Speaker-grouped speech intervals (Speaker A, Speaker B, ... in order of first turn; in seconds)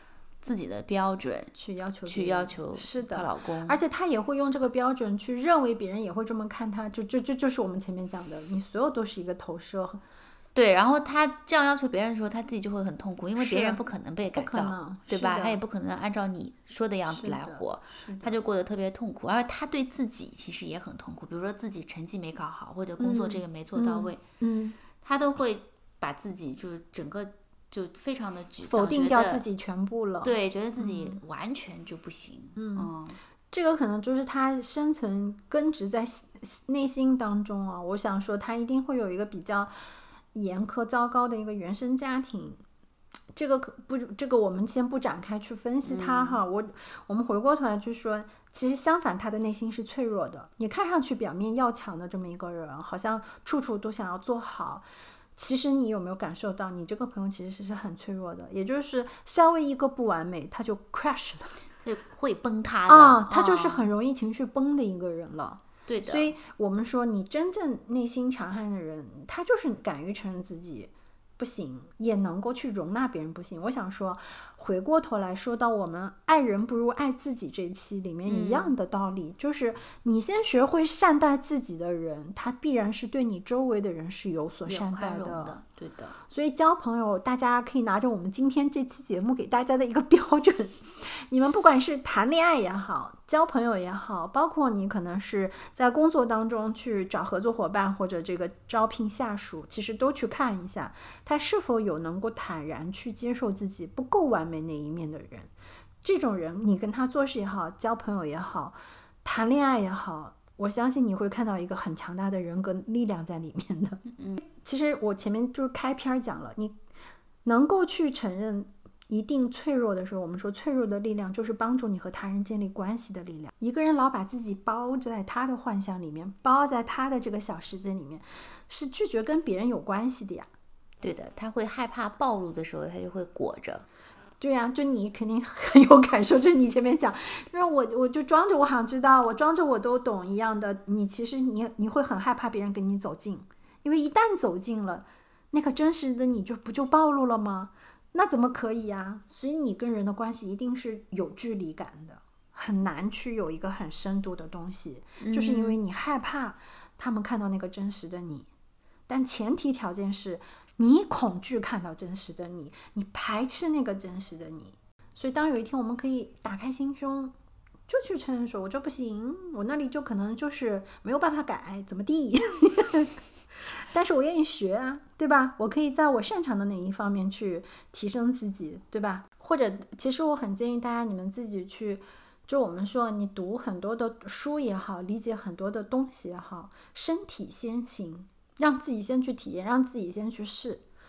Speaker A: 0.4-1.5, 2.0-3.8, 10.5-24.2, 25.0-29.4, 30.2-33.2, 45.8-46.4, 61.8-63.9, 65.9-66.3, 78.2-78.7, 84.7-86.2, 114.1-114.4, 131.0-133.8, 155.2-155.8
Speaker B: 1.6-10.0, 13.4-13.8, 14.3-15.6, 17.1-18.3, 23.0-24.8, 28.7-31.2, 32.5-32.9, 33.5-42.6, 43.3-54.8, 55.4-61.5, 62.9-85.6, 86.3-105.5, 106.0-116.8, 117.4-130.5, 134.4-158.5, 159.1-167.3, 167.9-173.2, 173.8-190.8